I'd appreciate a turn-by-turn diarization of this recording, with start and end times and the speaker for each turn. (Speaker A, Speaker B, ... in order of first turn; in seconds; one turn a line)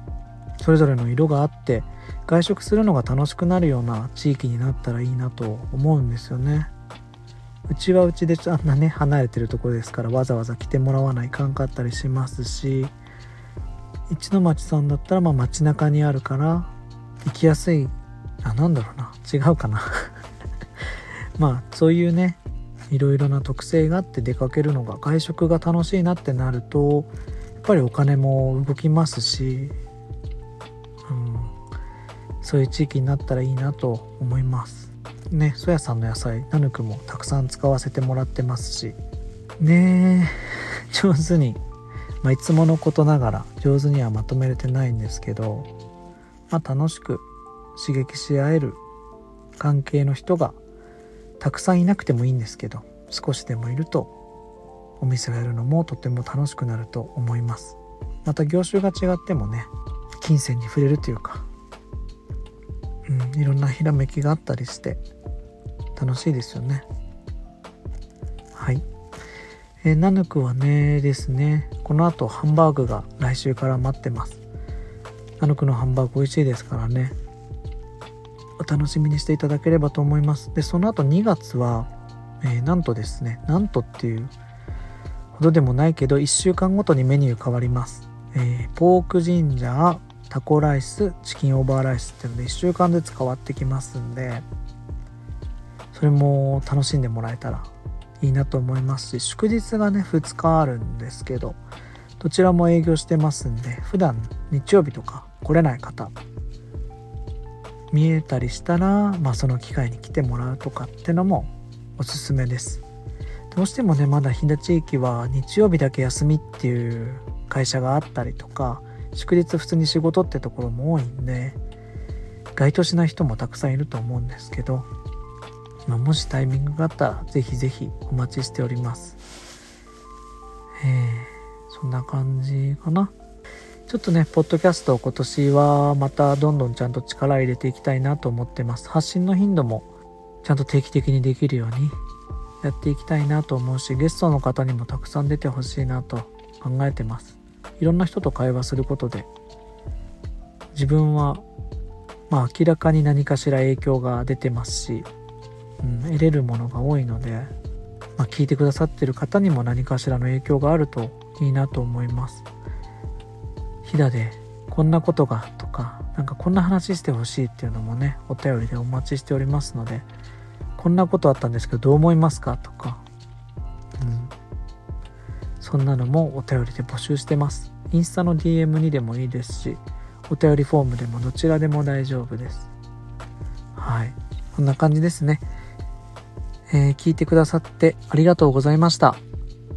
Speaker A: 0.6-6.7
Speaker A: 7.7-12.9
Speaker A: 14.1-16.7
Speaker A: 17.2-20.1
Speaker A: 21.4-29.8
Speaker A: 31.1-31.6
Speaker A: 32.4-39.0
Speaker A: 39.6-41.6
Speaker A: 42.2-45.7
Speaker A: 46.5-48.8
Speaker A: 49.6-50.6
Speaker A: 51.4-54.1
Speaker A: 55.0-61.5
Speaker A: 63.1-65.0
Speaker A: 66.0-66.9
Speaker A: 68.5-68.8
Speaker A: 69.8-74.4
Speaker A: 75.4-77.2
Speaker A: 78.6-81.9
Speaker A: 82.4-84.3
Speaker A: 85.3-94.5
Speaker A: 95.9-101.6
Speaker A: 102.2-106.1
Speaker A: 107.9-112.8
Speaker A: 113.5-121.6
Speaker A: 122.5-124.9
Speaker A: 125.9-129.2
Speaker A: 130.8-133.1
Speaker A: 133.9-139.9
Speaker A: 140.4-142.0
Speaker A: 142.6-149.3
Speaker A: 150.7-151.4
Speaker A: 152.3-155.1
Speaker A: 155.8-157.5
Speaker A: 158.2-162.4
Speaker A: 163.8-170.1
Speaker A: 170.8-173.0
Speaker A: 174.0-174.3
Speaker A: 175.6-182.7
Speaker A: 183.8-185.4
Speaker A: 186.7-189.2